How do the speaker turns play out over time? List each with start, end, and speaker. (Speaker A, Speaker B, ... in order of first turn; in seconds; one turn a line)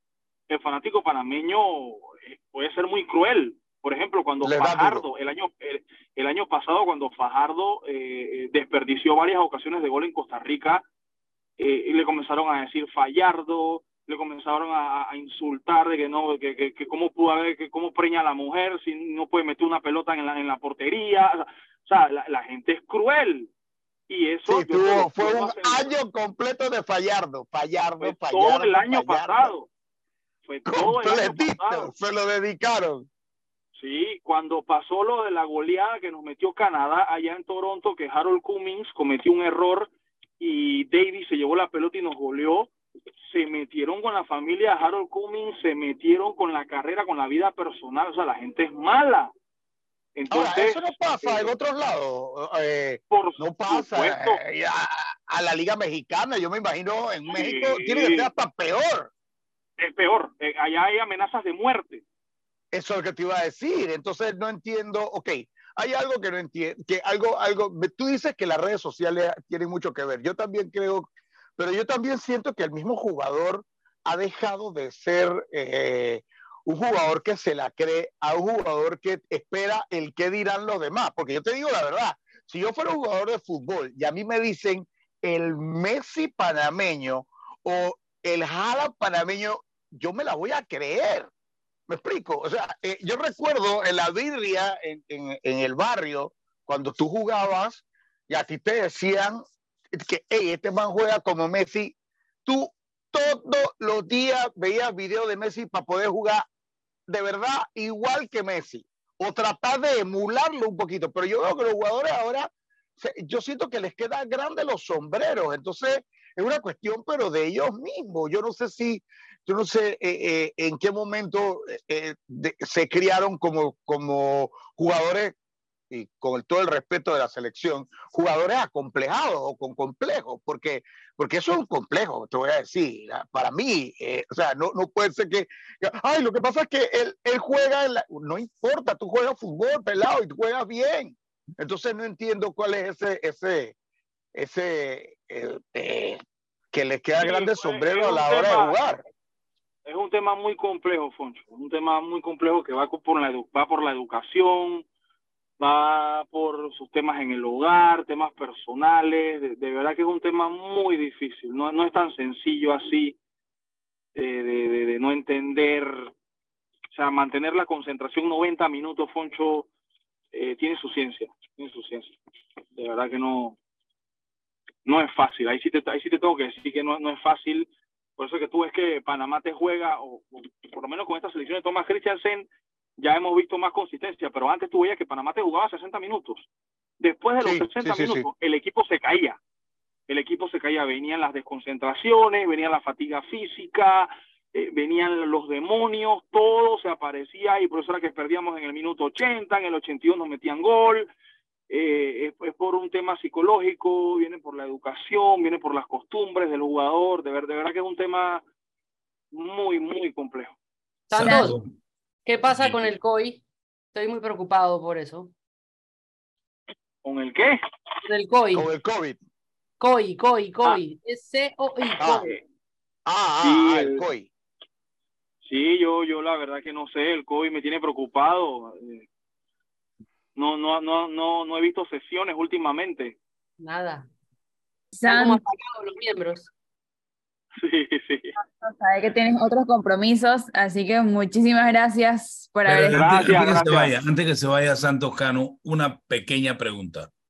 Speaker A: 0.5-10.8
Speaker B: 4.4-5.1
Speaker A: 11.6-23.5
Speaker A: 24.1-25.9
Speaker B: 24.5-29.5
Speaker A: 28.0-29.7
Speaker A: 30.4-31.9
Speaker B: 30.7-33.1
Speaker A: 33.8-42.7
Speaker A: 43.2-49.3
Speaker A: 50.1-51.5
Speaker B: 50.3-59.1
Speaker A: 53.1-54.4
Speaker A: 57.3-58.3
Speaker A: 59.8-62.0
Speaker B: 62.7-91.3
Speaker B: 91.9-101.9
Speaker B: 102.5-106.5
Speaker B: 107.1-125.4
Speaker B: 125.9-143.8
Speaker B: 144.3-146.2
Speaker B: 146.7-149.0
Speaker A: 147.2-148.8
Speaker A: 149.8-154.9
Speaker A: 155.6-163.2
Speaker A: 164.2-166.1
Speaker A: 166.9-169.7
Speaker A: 170.3-172.2
Speaker A: 172.8-173.6
Speaker A: 174.8-186.5
Speaker A: 187.0-189.4
Speaker B: 187.4-188.3
Speaker A: 190.1-201.1
Speaker A: 201.7-208.4
Speaker A: 209.3-210.6
Speaker C: 211.1-211.6
Speaker D: 211.1-211.7
Speaker E: 211.2-211.5
Speaker C: 212.2-215.3
Speaker D: 212.5-212.9
Speaker A: 217.0-217.6
Speaker C: 218.1-218.7
Speaker B: 218.5-219.2
Speaker C: 219.8-222.4
Speaker B: 222.0-222.3
Speaker B: 223.1-224.3
Speaker A: 223.4-224.1
Speaker A: 225.4-229.1
Speaker A: 230.3-233.2
Speaker C: 233.6-234.1
Speaker E: 234.9-235.4
Speaker C: 235.0-236.5
Speaker A: 237.6-238.3
Speaker E: 238.4-243.5
Speaker D: 242.7-247.1
Speaker A: 242.9-243.9